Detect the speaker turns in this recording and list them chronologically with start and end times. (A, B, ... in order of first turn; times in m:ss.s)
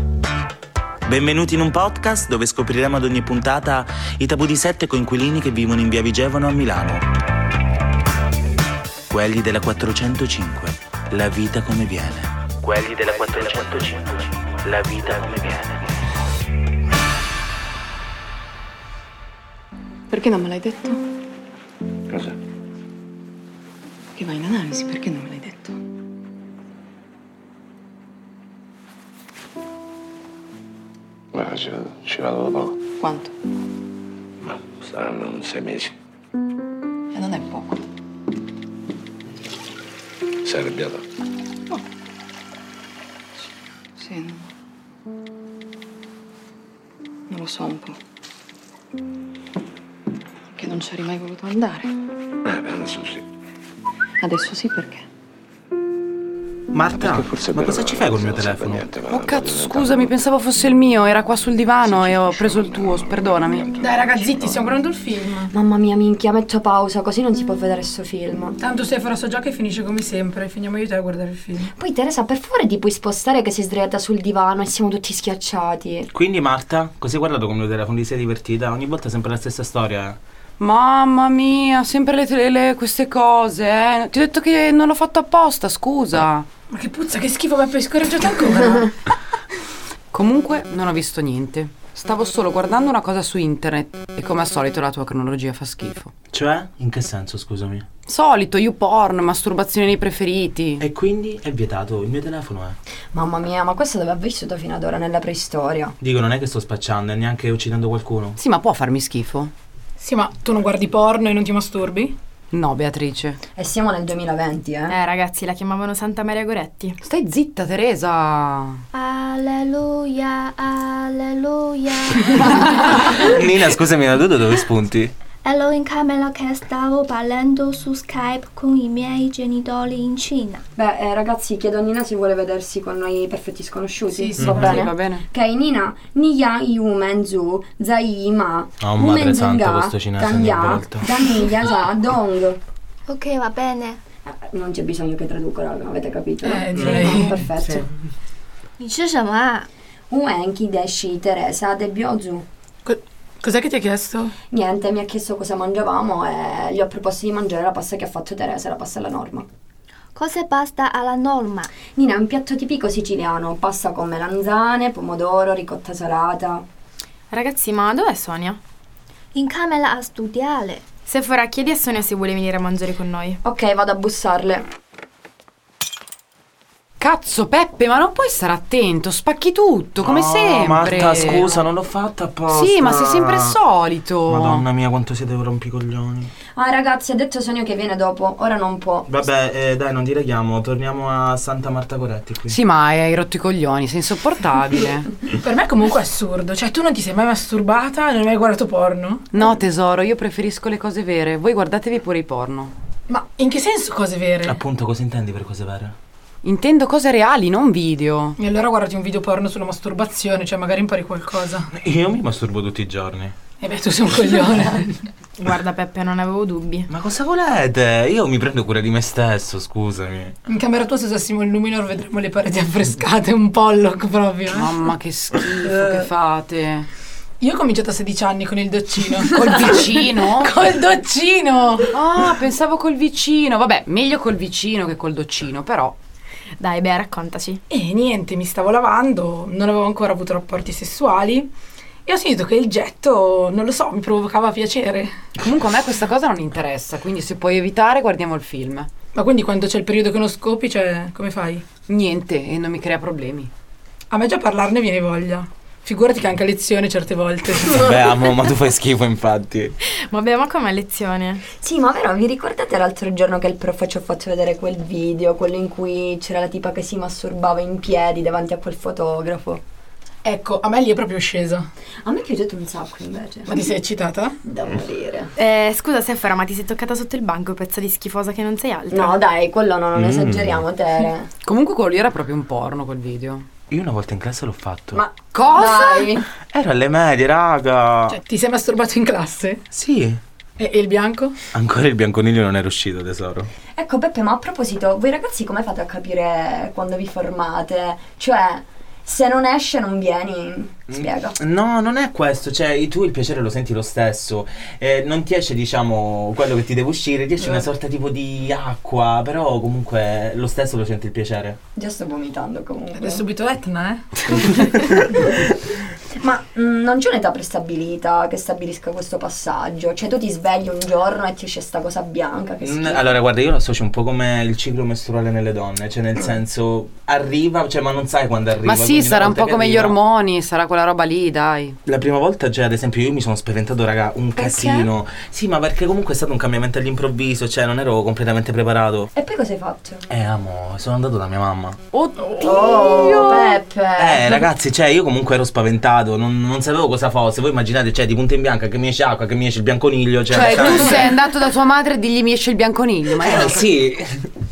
0:01.0-0:07.0 A
0:09.1-0:15.8 A
0:20.1-0:21.0 B
0:22.1-0:22.4 C
0:24.2-0:25.7 B
0:31.3-0:32.8 C
0:33.0-0:33.3 B
0:34.4-0:35.9 C
0:37.1-0:37.8 B
0:40.4-0:41.0 C
0:44.0-0:44.4 B
0:47.3-0:48.0 B
0:50.6-0:51.9 B
0:52.4-0:53.2 C
0:54.2-0:55.0 B
0:56.7-0:58.8 A
0:57.0-1:00.1 C
0:59.1-1:03.7 D
1:01.8-1:04.5 C
1:03.8-1:05.5 E
1:05.5-1:08.6 F
1:08.6-1:11.7 E
1:11.7-1:16.1 F
1:16.1-1:20.2 A
1:20.6-1:26.5 D
1:26.7-1:28.9 E
1:30.1-1:36.1 D
1:36.3-1:37.8 A
1:38.1-1:40.8 D
1:40.8-1:42.8 A
1:43.1-1:45.9 F
1:46.0-1:48.4 A
1:48.4-1:49.5 D
1:50.0-1:52.2 E
1:52.5-1:53.4 D
1:53.6-1:55.0 F
1:54.9-1:57.0 G
1:57.0-1:58.8 D
1:58.9-2:03.2 H
2:03.1-2:05.1 A
2:05.4-2:10.6 H
2:10.8-2:22.6 F
2:14.1-2:15.2 D
2:14.4-2:14.7 A
2:18.8-2:21.1 A
2:23.1-2:24.0 H
2:24.2-2:27.9 F
2:26.4-2:27.3 E
2:26.7-2:27.8 A
2:28.8-2:29.7 H
2:30.1-2:32.4 F
2:32.8-2:34.3 E
2:34.5-2:39.5 F
2:40.1-2:41.7 H
2:41.9-2:46.6 F
2:47.3-2:48.6 G
2:49.3-2:50.8 H
2:51.0-2:53.4 G
2:53.4-2:54.7 F
2:57.0-3:01.5 D
3:00.0-3:03.6 A
3:01.2-3:01.6 F
3:02.5-3:04.6 D
3:04.3-3:06.3 A
3:06.5-3:09.2 F
3:09.1-3:12.6 A
3:12.5-3:15.2 D
3:15.3-3:19.4 E
3:19.3-3:22.7 D
3:23.1-3:24.6 E
3:24.4-3:25.9 A
3:26.4-3:28.4 D
3:28.4-3:31.7 E
3:31.7-3:33.3 A
3:33.6-3:35.1 E
3:35.4-3:36.9 G
3:36.9-3:40.3 A
3:40.4-3:44.7 E
3:44.5-3:46.9 D
3:47.4-3:52.0 E
3:49.3-3:50.5 D
3:51.9-3:56.0 D
3:56.6-3:57.6 G
3:57.7-4:01.5 E
4:02.0-4:05.3 E
4:05.4-4:08.9 D
4:09.1-4:11.6 E
4:11.9-4:13.5 D
4:14.1-4:18.1 E
4:17.5-4:19.7 A
4:20.1-4:21.4 G
4:21.6-4:29.6 F
4:30.2-4:31.7 E
4:32.0-4:33.6 F
4:33.5-4:34.4 E
4:34.4-4:35.3 F
4:35.4-4:39.2 G
4:38.9-4:41.3 F
4:39.9-4:40.6 A
4:41.4-4:43.4 D
4:43.7-4:45.0 A
4:44.9-4:46.3 F
4:45.3-4:46.2 D
4:46.5-4:48.2 A
4:48.1-4:49.6 E
4:49.7-4:50.2 A
4:50.6-4:51.4 E
4:51.5-4:53.5 A
4:53.7-5:01.4 F
5:00.9-5:11.6 A
5:11.8-5:13.2 F
5:13.0-5:14.9 E
5:15.0-5:15.5 F
5:16.2-5:23.0 F
5:22.6-5:30.0 A
5:28.6-5:31.8 D
5:31.8-5:39.1 A
5:34.4-5:34.9 F
5:39.1-5:40.1 F
5:40.1-5:41.8 A
5:41.9-5:43.6 D
5:42.4-5:44.4 F
5:44.0-5:51.1 A
5:50.3-5:53.7 D
5:53.2-5:54.3 A